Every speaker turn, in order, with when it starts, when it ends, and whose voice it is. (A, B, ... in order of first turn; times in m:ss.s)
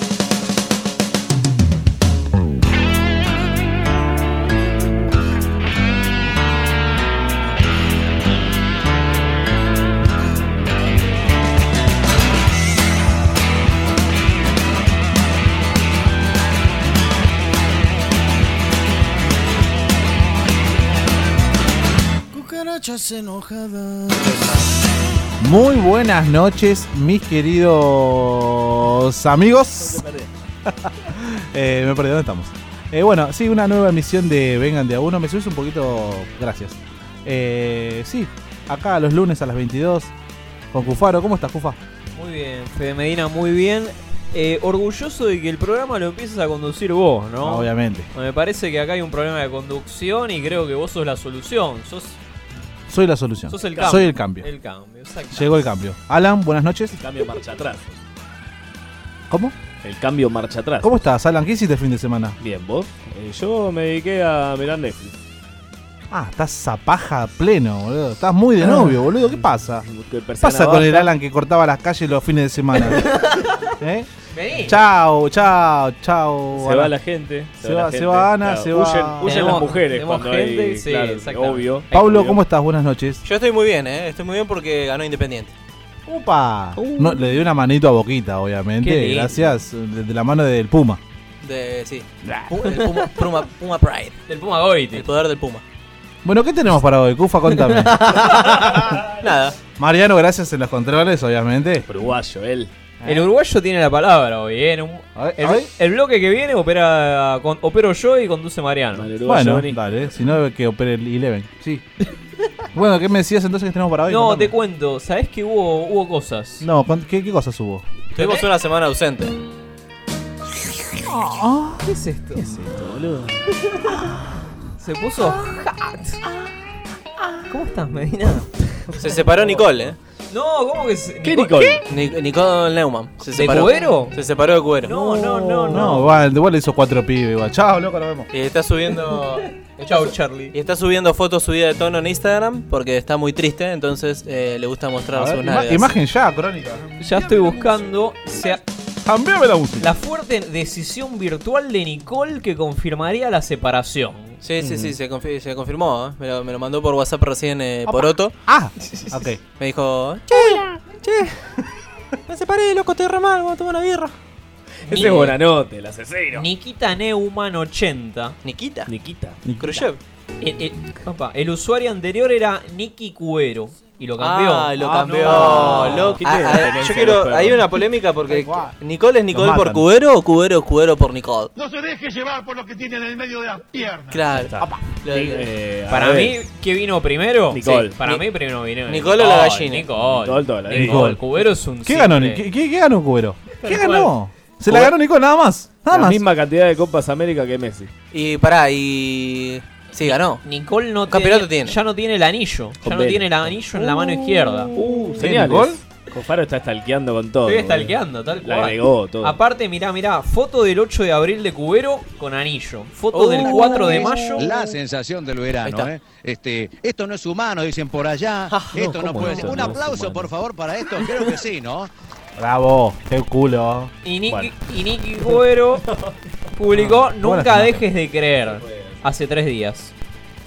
0:22.3-0:24.6 A
0:25.4-0:30.0 B
0:29.8-0:30.3 A
0:30.6-0:40.1 B
0:40.7-0:41.8 B
0:42.1-0:52.2 C
0:47.4-0:48.1 B
0:52.9-0:54.5 B
0:53.5-0:55.6 C
0:53.7-0:54.0 A
0:55.3-0:57.0 B
0:57.0-0:58.0 A
0:59.3-0:59.6 B
0:59.8-1:01.0 A
1:00.8-1:02.4 B
1:02.4-1:05.2 A
1:06.1-1:09.9 B
1:08.6-1:11.1 A
1:10.4-1:13.0 B
1:13.1-1:13.5 C
1:13.8-1:14.1 B
1:14.3-1:14.8 C
1:14.6-1:16.9 B
1:16.5-1:22.4 A
1:17.6-1:19.6 B
1:19.2-1:22.0 C
1:21.9-1:23.2 B
1:23.2-1:25.5 D
1:26.1-1:31.0 B
1:26.8-1:27.4 A
1:28.8-1:29.5 C
1:31.4-1:34.2 D
1:32.2-1:32.6 B
1:34.3-1:35.0 C
1:34.9-1:35.6 D
1:36.2-1:38.0 B
1:37.8-1:39.6 D
1:39.8-1:41.9 B
1:41.8-1:42.7 A
1:43.0-1:43.3 B
1:43.0-1:49.1 C
1:45.2-1:45.7 B
1:48.9-1:49.8 A
1:49.2-1:51.9 B
1:52.7-1:54.5 B
1:54.1-1:56.6 C
1:56.6-1:57.8 B
1:58.2-1:59.4 D
1:58.2-1:58.5 C
2:01.0-2:01.8 B
2:01.8-2:02.5 C
2:02.4-2:03.4 A
2:04.8-2:06.2 C
2:07.5-2:08.5 C
2:08.9-2:09.9 A
2:08.9-2:10.0 D
2:10.3-2:11.8 C
2:11.2-2:11.8 A
2:11.9-2:15.0 D
2:13.3-2:14.1 C
2:13.5-2:13.8 A
2:14.8-2:16.1 C
2:14.9-2:16.0 A
2:15.7-2:18.3 B
2:18.3-2:26.0 D
2:19.8-2:20.5 C
2:25.1-2:26.9 B
2:27.0-2:28.6 C
2:29.0-2:29.9 B
2:29.8-2:34.4 C
2:34.4-2:38.3 D
2:34.6-2:34.9 A
2:37.8-2:39.4 B
2:39.6-2:41.4 D
2:42.3-2:44.1 D
2:44.9-2:46.5 A
2:44.9-2:45.3 C
2:44.9-2:45.3 D
2:46.3-2:48.4 C
2:48.4-2:48.9 D
2:48.9-2:49.4 A
2:49.4-2:49.8 B
2:49.6-2:50.0 D
2:50.4-2:56.2 C
2:54.2-3:01.5 D
2:54.8-2:57.8 A
2:58.3-2:58.8 B
2:59.3-2:59.9 B
3:01.6-3:04.2 E
3:04.1-3:05.4 D
3:04.3-3:06.4 A
3:05.9-3:12.4 C
3:07.5-3:08.0 A
3:07.6-3:08.2 D
3:08.9-3:09.8 D
3:10.0-3:11.2 A
3:10.7-3:11.2 B
3:11.7-3:16.2 B
3:13.6-3:14.1 C
3:15.9-3:17.9 A
3:18.1-3:20.4 D
3:20.1-3:24.7 C
3:21.1-3:21.8 D
3:22.8-3:23.6 A
3:24.1-3:25.8 B
3:24.7-3:29.4 A
3:27.4-3:34.5 C
3:33.1-3:34.3 D
3:33.4-3:34.3 A
3:34.4-3:41.9 F
3:35.6-3:35.9 D
3:38.7-3:40.3 A
3:42.4-3:43.9 B
3:44.0-3:45.8 C
3:44.3-3:44.5 A
3:45.2-3:46.1 A
3:46.6-3:49.9 C
3:46.7-3:47.0 A
3:47.2-3:47.8 B
3:48.5-3:49.0 A